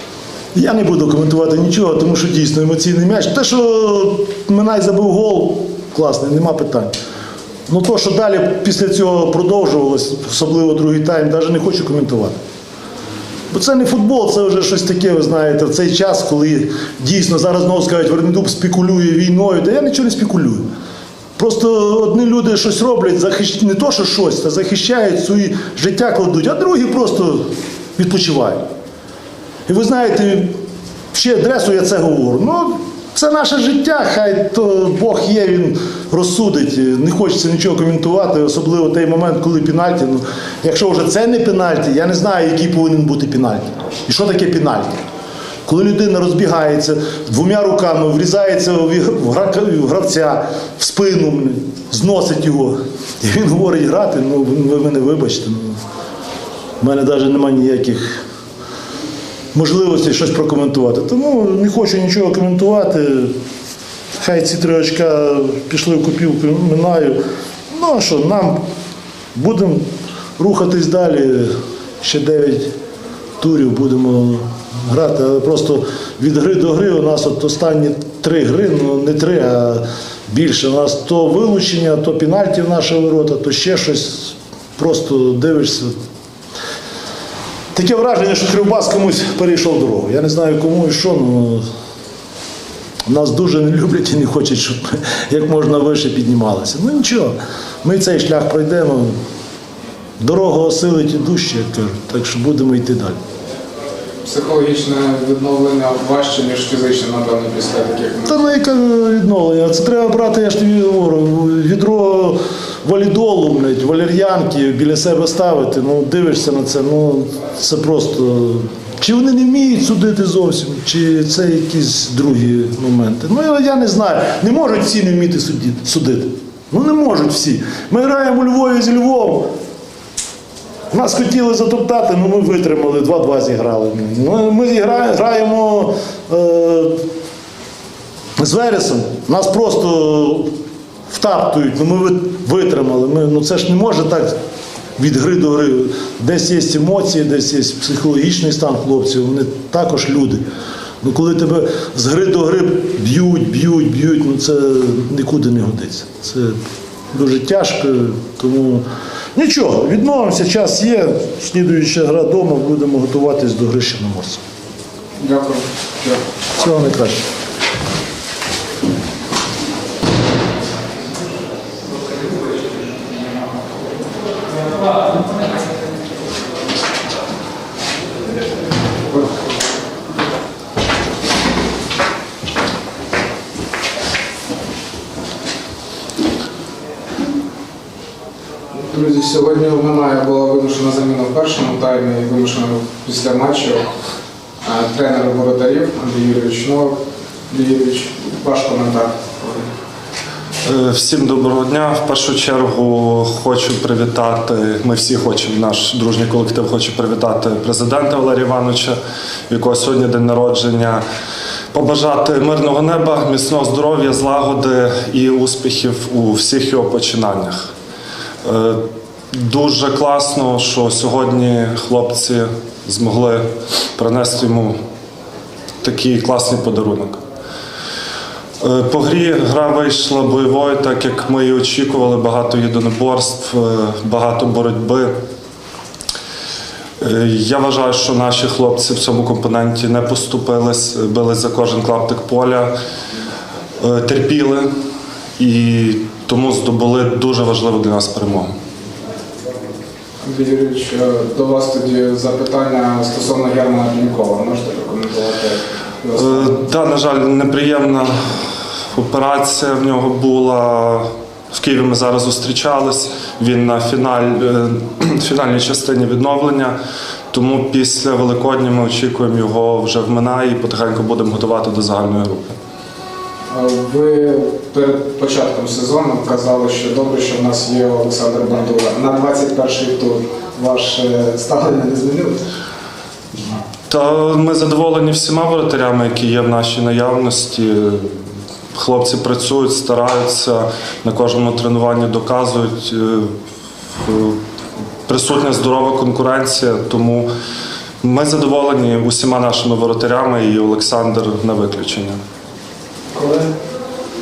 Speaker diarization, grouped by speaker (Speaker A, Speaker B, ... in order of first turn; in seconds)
Speaker A: 0.5-6.9, 7.7-12.4, 13.5-20.6, 21.4-28.6, 29.7-30.5, 31.1-44.9, 45.6-55.8, 56.8-58.2, 59.5-63.3, 64.2-67.2, 67.7-68.6, 69.3-69.8, 70.4-72.7, 73.4-85.9, 87.7-91.6, 93.1-99.1, 100.2-103.2, 108.3-129.5, 130.9-137.0, 138.4-140.5, 141.1-144.3, 145.0-150.4, 151.0-156.6, 157.1-158.8, 159.3-164.4, 166.6-167.2
Speaker B: 104.2-108.4, 165.2-166.2, 188.9-193.8, 194.6-196.9, 197.5-199.7, 250.2-256.5, 273.5-282.4, 303.1-303.5
Speaker C: 200.6-209.0, 209.5-211.0, 211.7-217.7, 218.4-223.4, 223.9-224.7, 225.8-227.2, 228.6-235.1, 237.0-242.7, 243.8-244.7, 245.4-248.5, 256.2-266.8, 267.3-272.6, 283.9-288.2, 288.7-293.3, 294.0-294.4, 295.1-297.3, 298.0-302.2